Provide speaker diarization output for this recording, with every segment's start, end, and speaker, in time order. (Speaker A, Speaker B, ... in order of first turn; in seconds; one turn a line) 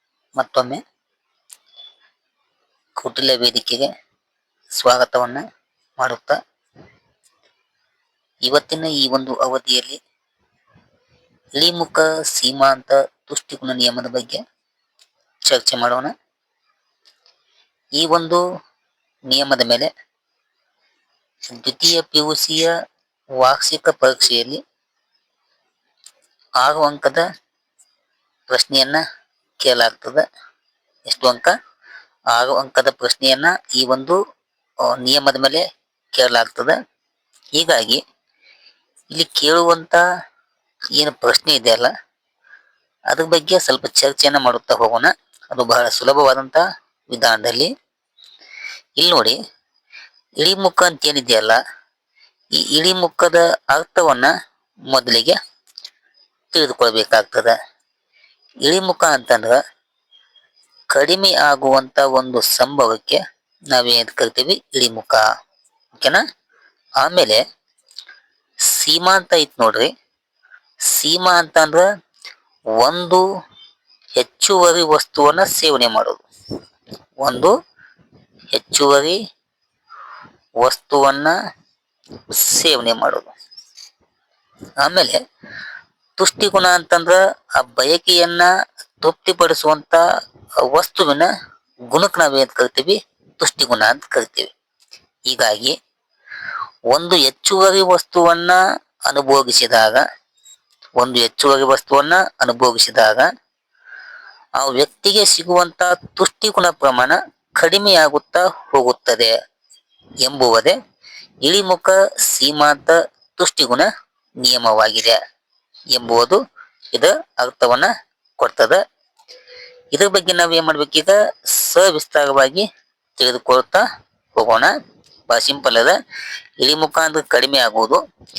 Speaker A: 0.4-0.8
Speaker A: 3.0-3.9
Speaker A: 4.8-5.4
Speaker A: 6.0-6.4
Speaker A: 8.4-10.0
Speaker A: 11.6-14.4
Speaker A: 15.5-16.1
Speaker A: 18.0-18.4
Speaker A: 19.3-19.9
Speaker A: 21.6-22.7
Speaker A: 23.4-24.6
Speaker A: 26.6-27.2
Speaker A: 28.5-29.0
Speaker A: 29.6-30.2
Speaker A: 31.1-31.5
Speaker A: 32.3-34.2
Speaker A: 34.9-35.6
Speaker A: 36.1-36.8
Speaker A: 37.6-38.0
Speaker A: 39.1-40.0
Speaker A: 41.0-41.9
Speaker A: 43.1-47.7
Speaker A: 49.0-49.4
Speaker A: 50.4-51.6
Speaker A: 52.6-54.3
Speaker A: 54.9-55.4
Speaker A: 56.5-57.5
Speaker A: 58.6-59.6
Speaker A: 60.9-63.2
Speaker A: 63.7-65.2
Speaker A: 66.0-66.2
Speaker A: 67.0-67.4
Speaker A: 68.7-69.9
Speaker A: 70.9-71.8
Speaker A: 72.8-73.2
Speaker A: 74.2-76.2
Speaker A: 77.2-77.5
Speaker A: 78.5-79.2
Speaker A: 80.6-81.3
Speaker A: 82.3-83.3
Speaker A: 84.8-85.2
Speaker A: 86.2-88.5
Speaker A: 89.0-90.0
Speaker A: 90.6-91.3
Speaker A: 91.9-94.5
Speaker A: 95.3-95.8
Speaker A: 96.9-100.0
Speaker A: 101.0-103.3
Speaker A: 104.6-109.3
Speaker A: 110.2-110.8
Speaker A: 111.4-113.9
Speaker A: 114.4-115.2
Speaker A: 115.9-116.4
Speaker A: 116.9-118.8
Speaker A: 119.9-122.7
Speaker A: 123.2-123.8
Speaker A: 124.4-124.7
Speaker A: 125.3-126.0
Speaker A: 126.6-128.0